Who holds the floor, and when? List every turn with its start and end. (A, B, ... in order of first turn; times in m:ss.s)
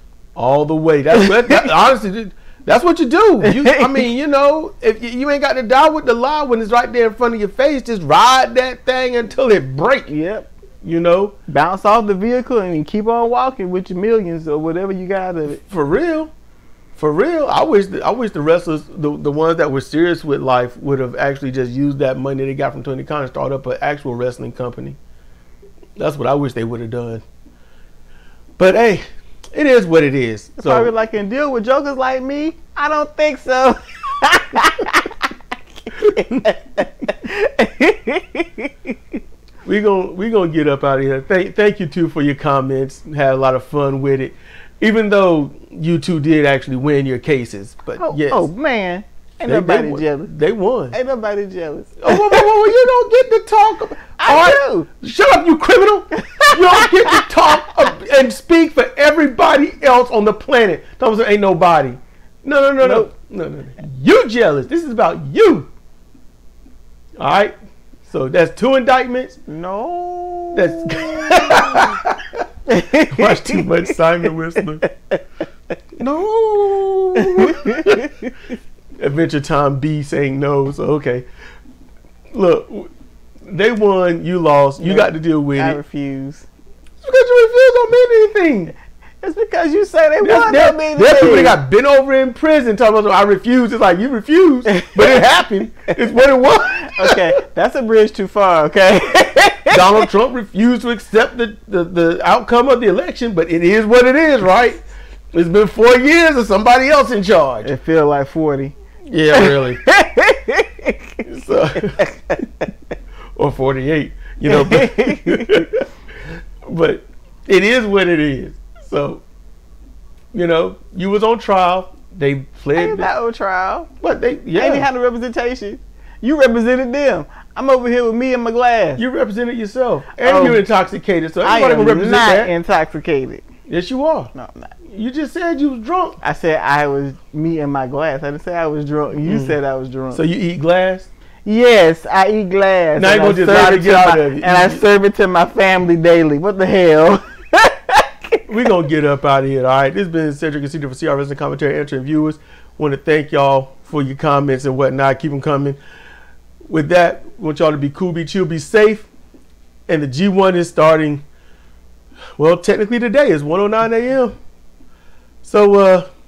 0:00.4-0:10.1 A
0:01.2-0:01.5 B
0:03.4-0:04.0 B
0:10.1-0:10.5 B
0:10.8-0:11.4 A
0:11.5-0:15.6 B
0:15.6-0:16.3 A
0:17.0-0:25.0 A
0:26.0-0:27.2 A
0:28.6-0:30.9 A
0:30.6-0:35.1 B
0:35.9-0:38.7 B
0:39.6-0:48.5 A
0:48.0-0:50.3 B
0:49.4-0:51.0 A
0:50.9-0:52.5 B
0:52.0-1:05.7 A
0:54.2-0:54.9 B
0:56.3-0:57.6 B
1:02.8-1:03.1 B
1:07.2-1:07.6 A
1:08.1-1:09.4 A
1:09.5-1:11.9 B
1:10.5-1:12.1 A
1:12.7-1:13.7 B
1:12.9-1:14.9 A
1:16.0-1:18.0 A
1:17.2-1:17.9 B
1:19.0-1:21.3 A
1:22.3-1:22.9 A
1:23.4-1:25.8 A
1:24.8-1:26.5 B
1:27.0-1:28.7 A
1:29.2-1:31.6 B
1:30.2-1:37.4 A
1:34.7-1:35.2 B
1:36.9-1:40.1 B
1:39.7-1:47.7 A
1:47.6-1:48.8 B
1:49.1-1:49.8 A
1:49.3-1:50.9 B
1:51.2-1:52.0 A
1:53.4-1:55.8 A
1:54.5-1:55.6 B
1:56.7-1:59.2 A
2:00.3-2:03.1 A
2:02.8-2:03.9 B
2:04.0-2:04.9 A
2:04.6-2:09.0 B
2:09.0-2:12.5 A
2:10.2-2:10.7 B
2:11.4-2:13.5 B
2:13.7-2:14.3 A
2:14.3-2:14.7 B
2:14.9-2:16.2 A
2:16.2-2:20.2 B
2:19.2-2:19.6 A
2:20.1-2:21.1 A
2:21.4-2:28.1 B
2:23.0-2:24.8 A
2:28.5-2:35.8 A
2:36.7-2:39.1 A
2:39.9-2:41.2 A
2:42.4-2:44.4 A
2:45.4-2:46.1 A